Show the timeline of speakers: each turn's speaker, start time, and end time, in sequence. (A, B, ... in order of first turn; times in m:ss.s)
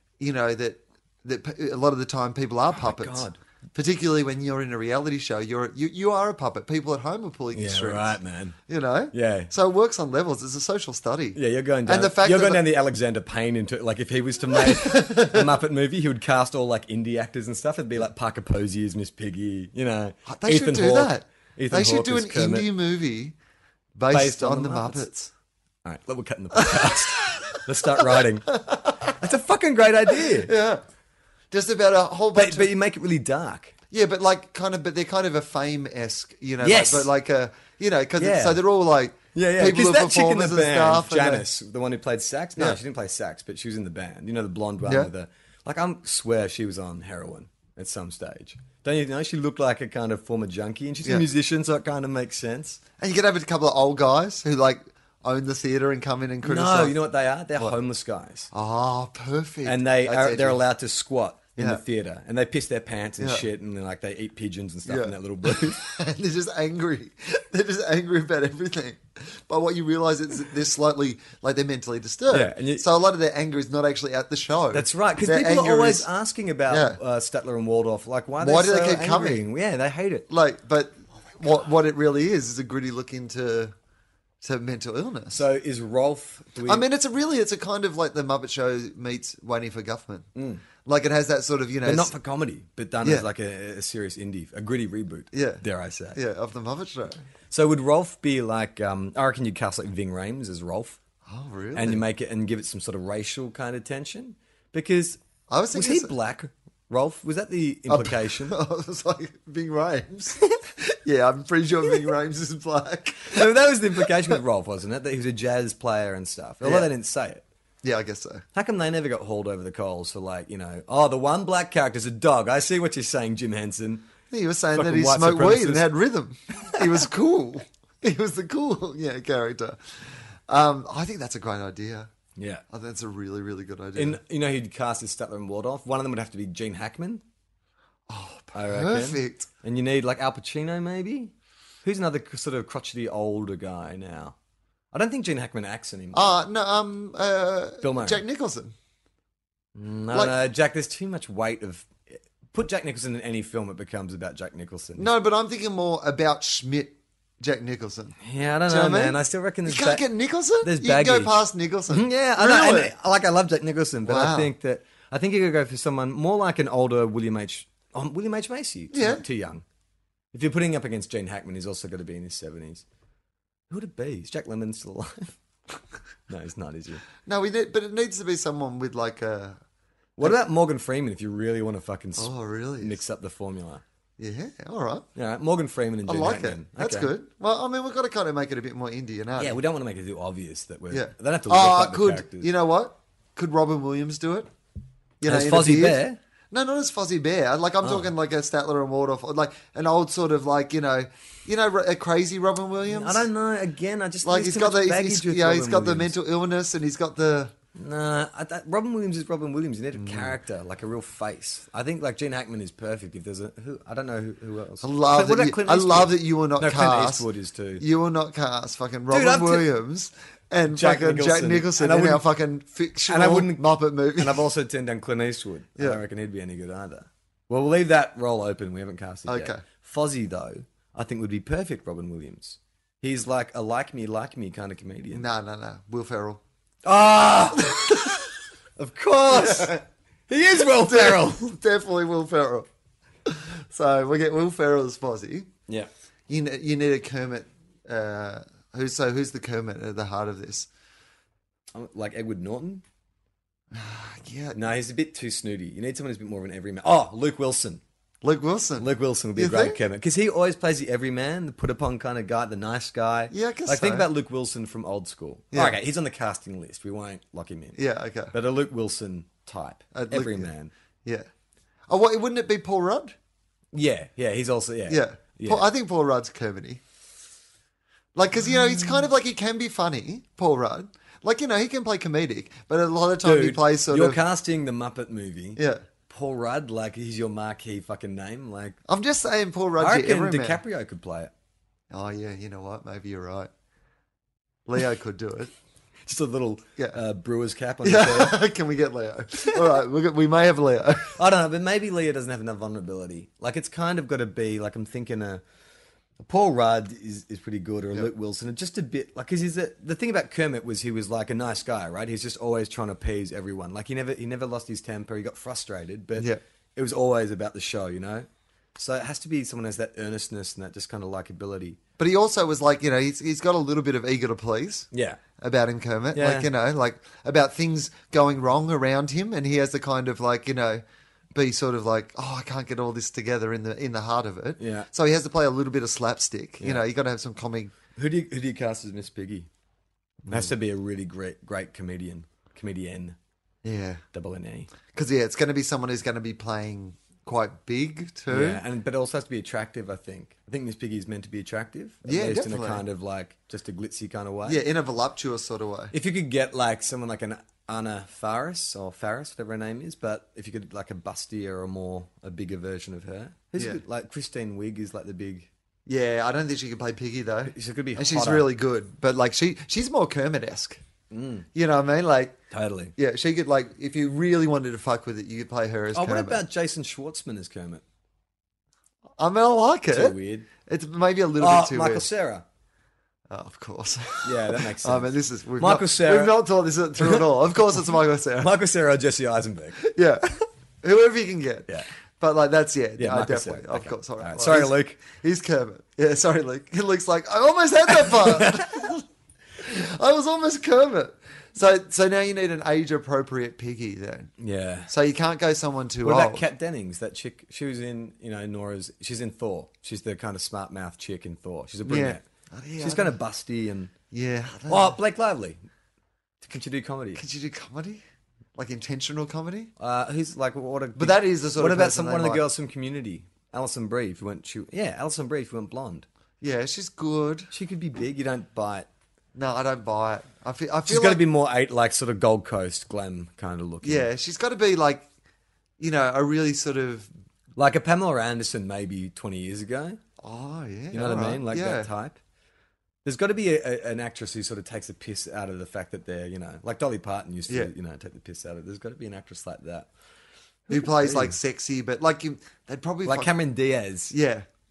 0:00.2-0:12.6 A
0:02.7-0:03.4 B
0:07.5-0:08.6 B
0:09.1-0:09.5 B
0:11.3-0:22.7 B
0:14.5-0:15.5 A
0:20.2-0:23.3 A
0:24.0-0:25.3 A
0:24.1-0:25.0 B
0:25.8-0:30.5 B
0:26.6-0:29.1 A
0:30.3-0:30.8 A
0:31.5-0:32.7 A
0:32.3-0:33.7 B
0:33.9-0:41.4 A
0:36.6-0:37.1 B
0:38.2-0:38.6 B
0:39.3-0:52.8 B
0:44.8-0:45.1 A
0:53.0-0:57.0 A
0:56.4-0:58.5 B
0:58.5-1:00.6 A
0:59.6-1:05.8 B
1:01.6-1:01.8 A
1:03.2-1:03.4 A
1:04.8-1:16.1 A
1:12.3-1:12.8 B
1:14.7-1:20.2 B
1:16.7-1:17.0 A
1:18.4-1:19.4 A
1:20.3-1:23.7 A
1:24.4-1:25.4 A
1:25.3-1:26.8 B
1:26.6-1:30.3 A
1:30.3-1:30.6 B
1:30.8-1:32.1 A
1:31.8-1:36.2 B
1:35.3-1:35.6 A
1:36.1-1:37.2 A
1:37.5-1:41.0 B
1:41.3-1:42.0 A
1:41.7-1:45.2 B
1:45.5-1:46.1 A
1:45.7-1:48.6 B
1:47.9-1:54.3 A
1:53.3-1:57.4 B
1:56.6-1:56.9 A
1:57.8-1:58.4 A
1:58.5-2:04.1 B
2:04.3-2:12.1 A
2:04.7-2:05.8 B
2:12.4-2:12.6 B
2:12.7-2:14.2 A
2:13.9-2:17.2 B
2:18.1-2:19.5 A
2:18.5-2:21.3 B
2:21.8-2:24.4 B
2:24.9-2:26.3 B
2:26.1-2:28.7 A
2:27.8-2:28.2 B
2:29.7-2:35.1 B
2:35.0-2:42.9 A
2:38.2-2:40.0 B
2:40.6-2:49.6 B
2:44.0-2:44.5 A
2:48.9-2:49.2 A
2:50.3-2:52.8 B
2:53.7-2:55.4 B
2:56.3-2:57.0 B
2:57.2-2:59.6 A
3:00.2-3:03.8 B
3:02.2-3:03.0 A
3:04.2-3:05.1 A
3:05.1-3:07.1 B
3:06.0-3:09.6 A
3:09.4-3:12.5 B
3:10.9-3:14.5 A
3:15.2-3:23.2 A
3:15.2-3:16.2 B
3:17.8-3:18.1 B
3:22.9-3:26.1 B
3:24.2-3:27.5 A
3:27.7-3:37.8 B
3:29.9-3:30.4 A
3:34.8-3:37.3 A
3:37.8-3:44.4 A
3:39.1-3:39.7 B
3:40.7-3:42.2 B
3:43.1-3:55.2 B
3:49.3-3:49.6 A
3:55.1-3:56.4 A
3:56.8-3:58.2 B
3:57.8-3:58.1 A
3:58.8-4:01.6 B
3:59.3-3:59.8 A
4:00.7-4:02.7 A
4:03.2-4:05.5 A
4:06.3-4:10.7 A
4:11.7-4:12.8 B
4:13.7-4:14.6 A
4:14.5-4:17.8 B
4:18.2-4:19.8 A
4:18.8-4:27.8 B
4:23.3-4:24.1 A
4:27.7-4:28.3 A
4:28.3-4:30.7 B
4:29.9-4:30.5 A
4:31.9-4:33.1 A
4:33.7-4:35.6 B
4:34.9-4:36.8 A
4:38.2-4:44.2 A
4:38.4-4:39.0 B
4:43.2-4:48.8 B
4:45.6-4:45.8 A
4:48.9-4:50.6 A
4:49.8-4:51.3 B
4:51.9-4:53.5 A
4:54.6-4:55.5 A
4:56.0-4:58.4 B
4:57.8-5:01.2 A
5:01.2-5:05.4 B
5:06.2-5:21.8 B
5:22.0-5:30.8 A
5:24.9-5:25.2 B
5:26.1-5:26.5 B
5:31.3-5:37.7 A
5:34.6-5:34.9 B
5:38.0-5:39.5 B
5:40.2-5:40.5 A
5:40.3-5:43.2 B
5:43.6-5:44.0 A
5:44.1-5:44.7 B
5:44.9-5:48.6 A
5:48.3-5:54.6 B
5:52.0-5:52.8 A
5:54.4-5:55.9 A
5:55.9-6:05.5 B
6:05.9-6:10.8 A
6:07.5-6:08.5 B
6:11.1-6:11.5 B
6:11.5-6:12.4 A
6:12.5-6:12.9 B
6:13.0-6:16.4 A
6:15.9-6:17.8 B
6:19.2-6:22.0 A
6:19.9-6:20.5 B
6:21.4-6:22.4 B
6:23.3-6:28.5 A
6:24.2-6:26.4 B
6:27.0-6:27.4 B
6:28.4-6:29.8 B
6:29.8-6:39.0 A
6:33.0-6:35.0 B
6:37.9-6:38.9 B
6:39.6-6:44.3 A
6:44.4-6:44.9 B
6:44.9-6:46.4 A
6:46.0-6:52.2 B
6:51.8-6:53.2 A
6:52.8-6:53.9 B
6:54.1-6:55.0 A
6:54.7-6:55.6 B
6:56.4-6:57.2 B
6:57.2-6:58.0 A
6:58.6-6:59.7 A
6:59.8-7:06.0 B
7:01.0-7:02.4 A
7:06.4-7:07.5 A
7:07.5-7:08.9 B
7:09.3-7:11.2 A
7:10.8-7:14.1 B
7:13.8-7:15.1 A
7:15.8-7:17.1 A
7:17.6-7:20.0 B
7:20.2-7:21.9 A
7:20.9-7:22.2 B
7:23.0-7:29.9 B
7:30.7-7:31.3 B
7:30.7-7:33.3 A
7:33.0-7:34.1 B
7:34.1-7:34.4 A